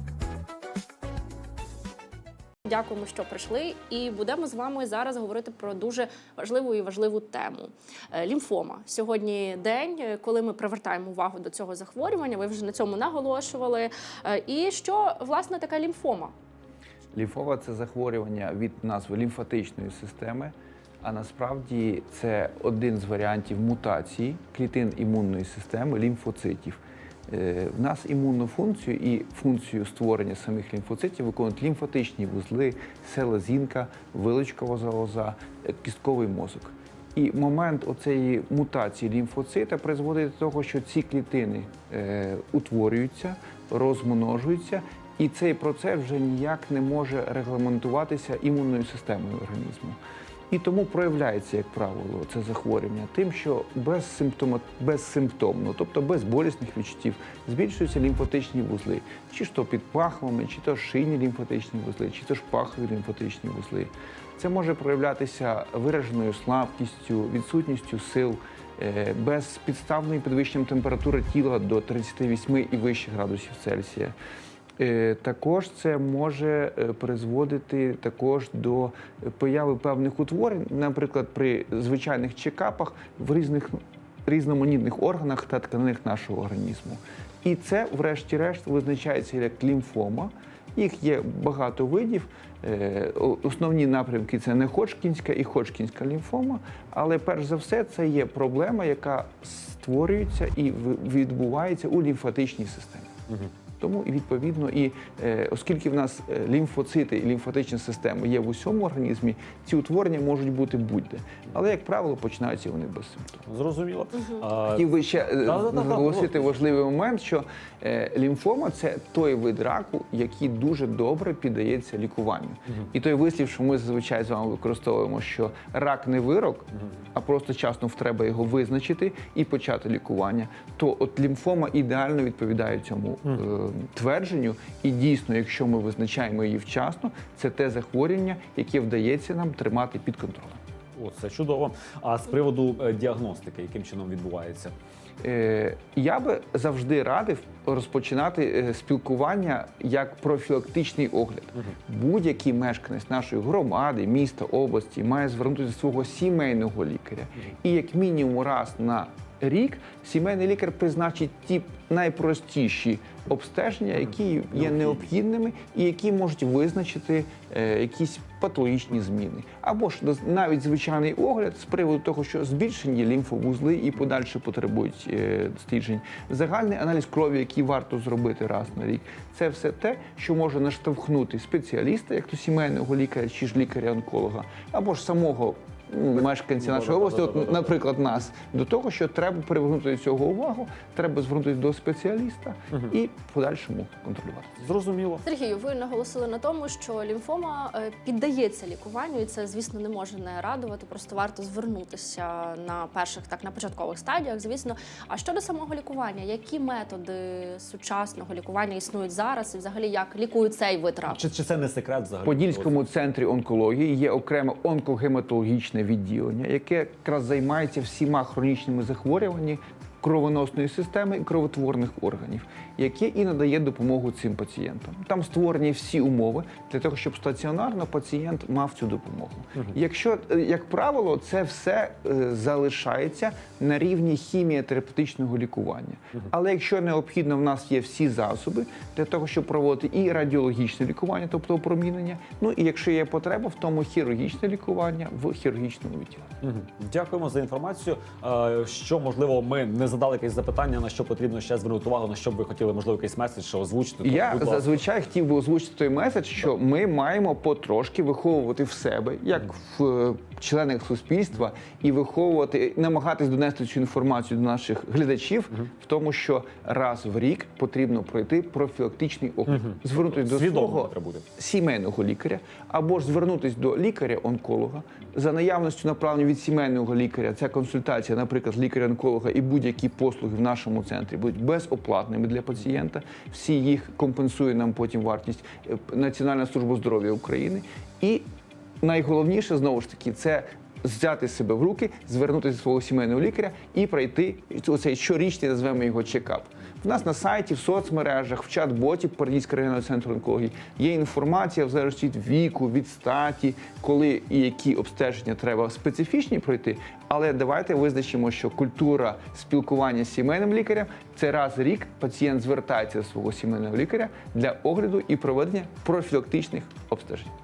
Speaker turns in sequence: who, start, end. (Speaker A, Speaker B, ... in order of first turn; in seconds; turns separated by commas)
Speaker A: 2.7-16.3, Speaker B: 17.1-50.0, Speaker B: 50.5-74.2, Speaker B: 74.8-103.2, Speaker B: 103.8-113.4, Speaker C: 113.5-114.9, Speaker B: 114.7-140.6, Speaker C: 115.4-116.6, Speaker C: 141.0-144.7, Speaker B: 145.2-194.6, Speaker C: 186.6-187.8, Speaker C: 194.6-195.2, Speaker A: 195.2-211.2, Speaker C: 211.1-212.8, Speaker B: 212.2-246.3, Speaker C: 246.4-254.8, Speaker B: 254.0-288.2, Speaker C: 269.5-271.3, Speaker B: 288.8-317.3